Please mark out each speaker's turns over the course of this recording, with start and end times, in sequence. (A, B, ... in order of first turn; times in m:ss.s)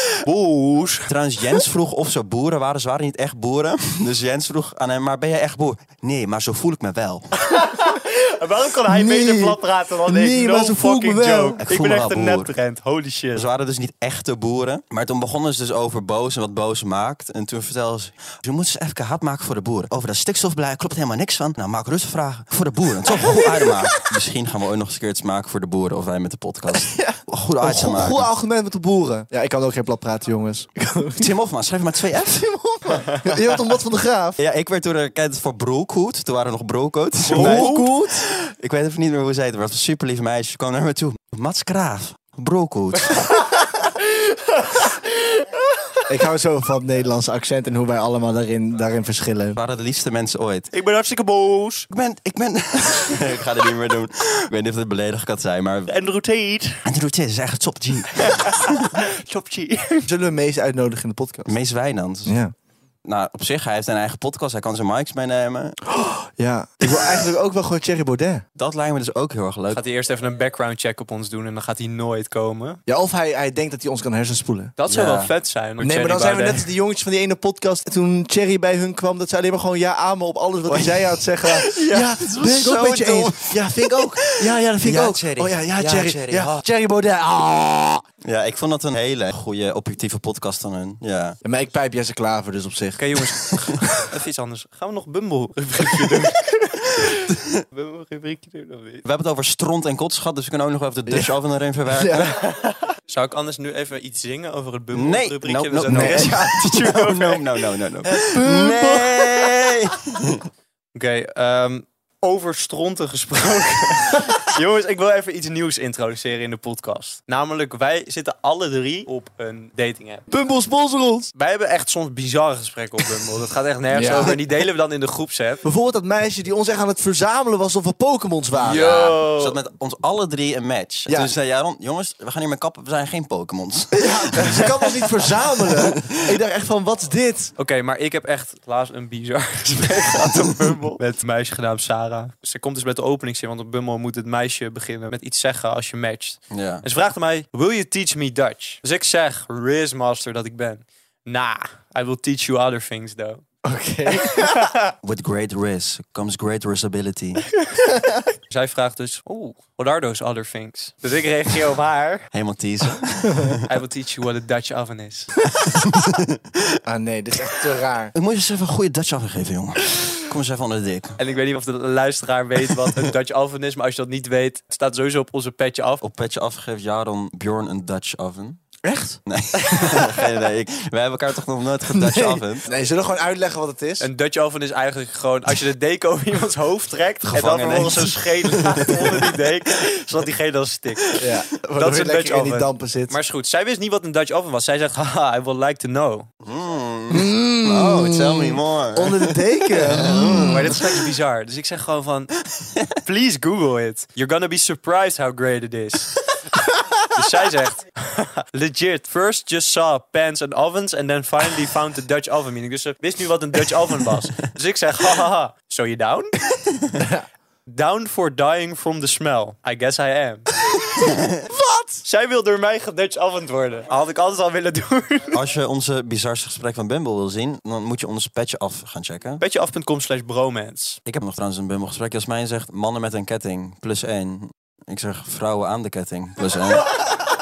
0:00.2-0:01.1 A
0:01.1-0:07.3 B
0:07.4-0:13.4 A
0:08.9-0:11.6 C
0:11.6-0:12.5 B
0:13.3-0:28.3 B
0:26.7-0:31.3 C
0:31.2-0:33.4 B
0:33.1-0:34.4 C
0:34.4-0:43.3 B
0:37.2-0:37.9 A
0:37.3-0:38.2 C
0:43.1-0:45.6 A
0:46.0-0:49.6 C
0:49.6-0:50.7 B
0:50.7-0:51.9 A
0:51.9-0:55.9 B
0:55.9-0:56.8 A
0:56.8-0:59.0 B
0:58.1-1:00.1 A
1:00.0-1:01.5 C
1:01.4-1:02.4 B
1:02.2-1:02.5 C
1:03.0-1:05.8 B
1:05.9-1:08.4 C
1:08.6-1:09.8 B
1:09.7-1:12.8 A
1:12.9-1:14.7 C
1:14.8-1:16.7 A
1:14.9-1:15.3 B
1:15.8-1:28.0 C
1:20.7-1:26.6 B
1:28.2-1:31.4 B
1:31.4-1:33.8 C
1:33.0-1:39.0 A
1:37.0-1:37.6 B
1:39.0-1:42.3 B
1:41.1-1:41.3 C
1:41.9-1:42.5 C
1:42.3-1:47.6 A
1:44.9-1:50.5 B
1:45.9-1:46.5 C
1:48.3-1:49.5 C
1:50.9-2:00.3 A
2:00.3-2:01.3 C
2:01.3-2:05.6 A
2:03.9-2:04.4 C
2:05.6-2:08.9 C
2:08.6-2:14.7 B
2:08.6-2:09.6 A
2:11.1-2:11.3 C
2:13.9-2:17.5 C
2:15.7-2:16.2 B
2:17.6-2:33.4 A
2:26.5-2:26.8 B
2:33.6-2:34.7 C
2:34.1-2:34.8 A
2:35.0-2:37.4 B
2:37.9-2:38.3 C
2:38.5-2:42.3 A
2:42.3-2:43.6 B
2:43.6-2:45.3 A
2:45.6-2:46.8 B
2:46.8-2:48.1 C
2:48.1-2:51.2 B
2:51.2-2:56.0 A
2:56.0-2:58.6 B
2:58.8-2:59.2 C
2:59.2-3:02.7 B
2:59.6-3:00.0 A
3:01.9-3:04.1 C
3:04.0-3:11.2 A
3:07.3-3:09.3 B
3:11.2-3:13.1 C
3:11.8-3:16.3 A
3:16.4-3:20.8 B
3:17.1-3:20.7 C
3:20.2-3:22.3 A
3:22.5-3:22.9 B
3:23.0-3:26.2 A
3:27.1-3:36.3 A
3:37.0-3:37.2 C
3:37.7-3:40.5 A
3:41.0-3:41.4 B
3:41.4-3:42.0 C
3:42.0-3:45.3 A
3:45.3-3:49.4 B
3:49.4-3:51.0 A
3:51.0-3:56.9 B